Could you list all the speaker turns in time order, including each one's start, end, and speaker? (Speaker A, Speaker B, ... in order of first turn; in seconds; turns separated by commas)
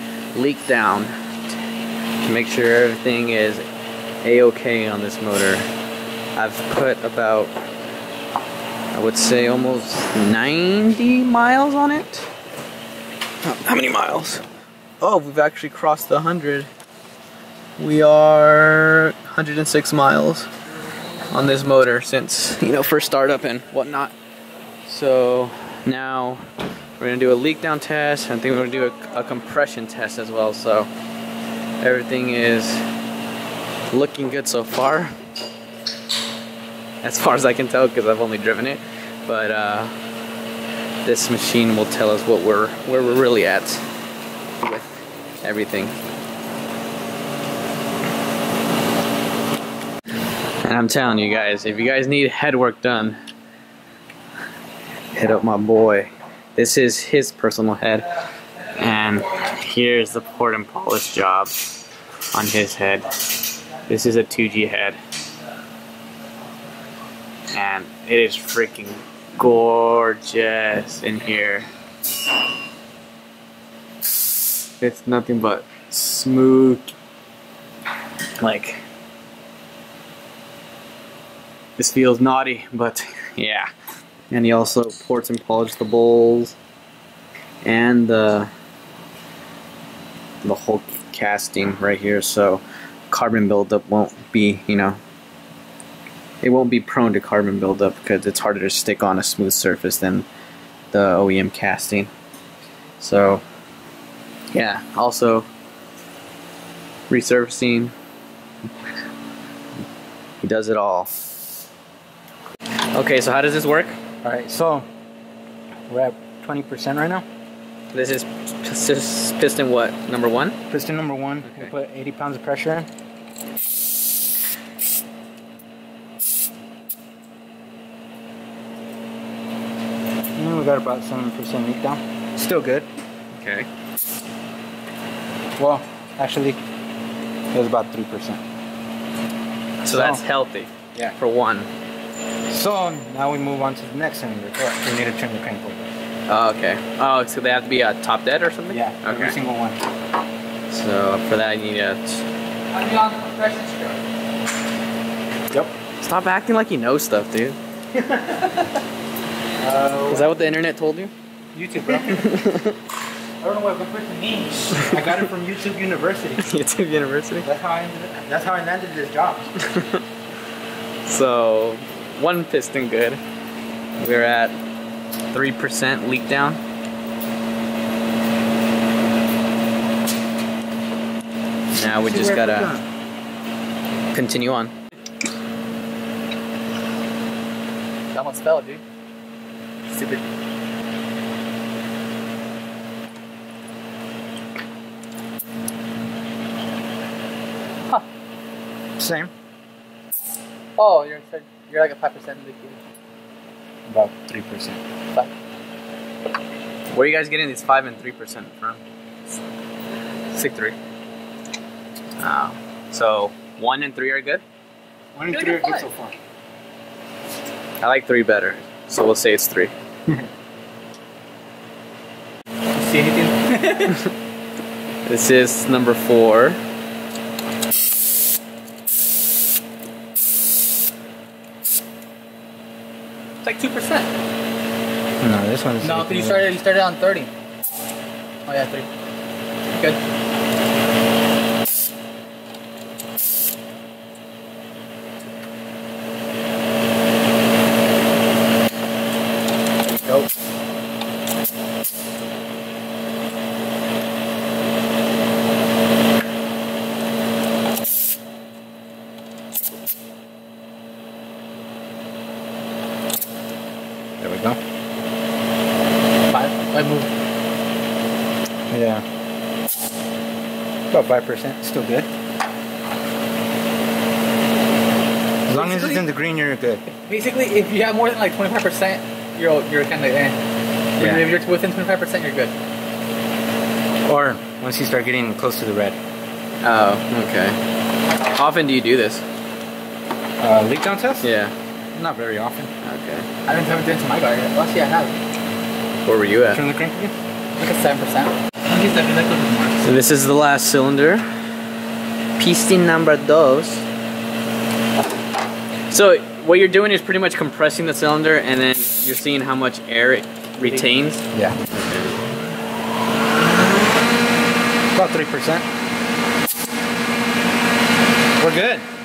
Speaker A: 0.3-1.1, Speaker A: 2.2-3.6, Speaker A: 4.2-5.7, Speaker A: 6.4-7.5, Speaker A: 8.9-12.3, Speaker A: 13.4-14.5, Speaker A: 15.0-16.7, Speaker A: 17.8-20.5, Speaker A: 21.3-24.1, Speaker A: 24.9-26.5, Speaker A: 27.0-30.9, Speaker A: 31.8-32.9, Speaker A: 33.9-35.2, Speaker A: 37.0-39.9, Speaker A: 41.0-43.9, Speaker A: 44.6-44.9, Speaker A: 45.4-46.0, Speaker A: 50.6-53.2, Speaker A: 55.1-58.1, Speaker A: 58.7-61.5, Speaker A: 62.3-63.3, Speaker A: 63.9-65.0, Speaker A: 67.5-71.7, Speaker A: 74.8-76.9, Speaker A: 78.4-78.8, Speaker A: 81.8-83.7, Speaker A: 84.3-86.6, Speaker A: 87.6-88.5, Speaker A: 90.4-95.0, Speaker A: 96.4-100.3, Speaker A: 100.9-102.1, Speaker A: 103.0-103.4, Speaker A: 104.5-105.5, Speaker A: 107.1-107.9, Speaker A: 110.4-111.1, Speaker A: 112.9-114.0, Speaker B: 114.2-114.9, Speaker B: 115.9-117.2, Speaker A: 117.9-120.6, Speaker B: 120.7-122.9, Speaker A: 121.5-121.7, Speaker B: 130.4-132.9, Speaker A: 133.3-133.7, Speaker B: 135.6-136.6, Speaker B: 137.5-138.4, Speaker A: 139.8-141.7, Speaker B: 139.9-140.2, Speaker B: 142.5-145.9, Speaker A: 146.3-149.4, Speaker B: 148.7-149.8, Speaker A: 150.7-152.2, Speaker C: 152.7-154.0, Speaker A: 156.0-157.6, Speaker B: 157.9-158.4, Speaker B: 159.6-160.5, Speaker A: 160.1-161.1, Speaker B: 161.5-162.3, Speaker A: 162.0-162.8, Speaker B: 163.4-166.4, Speaker A: 166.4-167.5, Speaker B: 167.4-169.5, Speaker A: 169.6-170.0, Speaker A: 171.1-173.2, Speaker A: 174.0-174.6, Speaker A: 175.3-176.6, Speaker A: 181.7-182.7, Speaker B: 182.1-182.9, Speaker A: 184.1-184.7, Speaker C: 188.1-188.8, Speaker C: 189.9-190.2, Speaker B: 199.0-199.3, Speaker C: 200.8-202.8, Speaker B: 203.9-204.8, Speaker A: 206.9-208.8, Speaker C: 210.4-210.7, Speaker A: 212.2-214.4, Speaker B: 215.2-216.2, Speaker C: 215.3-215.9, Speaker A: 217.8-219.7, Speaker C: 222.7-224.0, Speaker A: 225.1-226.6, Speaker C: 233.4-234.1, Speaker B: 235.2-236.5, Speaker C: 235.8-237.3, Speaker C: 238.5-238.9, Speaker C: 239.7-240.0, Speaker B: 249.9-250.2, Speaker B: 264.2-264.6, Speaker C: 266.3-267.1, Speaker B: 268.7-269.0, Speaker B: 270.9-272.1, Speaker B: 275.5-276.8, Speaker C: 275.5-276.0, Speaker C: 276.9-280.4, Speaker C: 281.0-282.5, Speaker B: 281.0-281.2, Speaker B: 284.1-286.0, Speaker A: 286.6-287.6, Speaker A: 288.3-289.2, Speaker B: 290.4-291.3, Speaker A: 291.2-291.6, Speaker B: 291.9-292.7, Speaker A: 292.8-293.3, Speaker C: 293.5-295.2, Speaker A: 296.1-296.6, Speaker B: 296.5-297.1, Speaker C: 297.6-299.8, Speaker A: 299.8-301.3, Speaker A: 302.4-303.8, Speaker A: 305.9-312.2, Speaker B: 310.7-311.6, Speaker B: 314.9-315.7, Speaker B: 318.4-318.8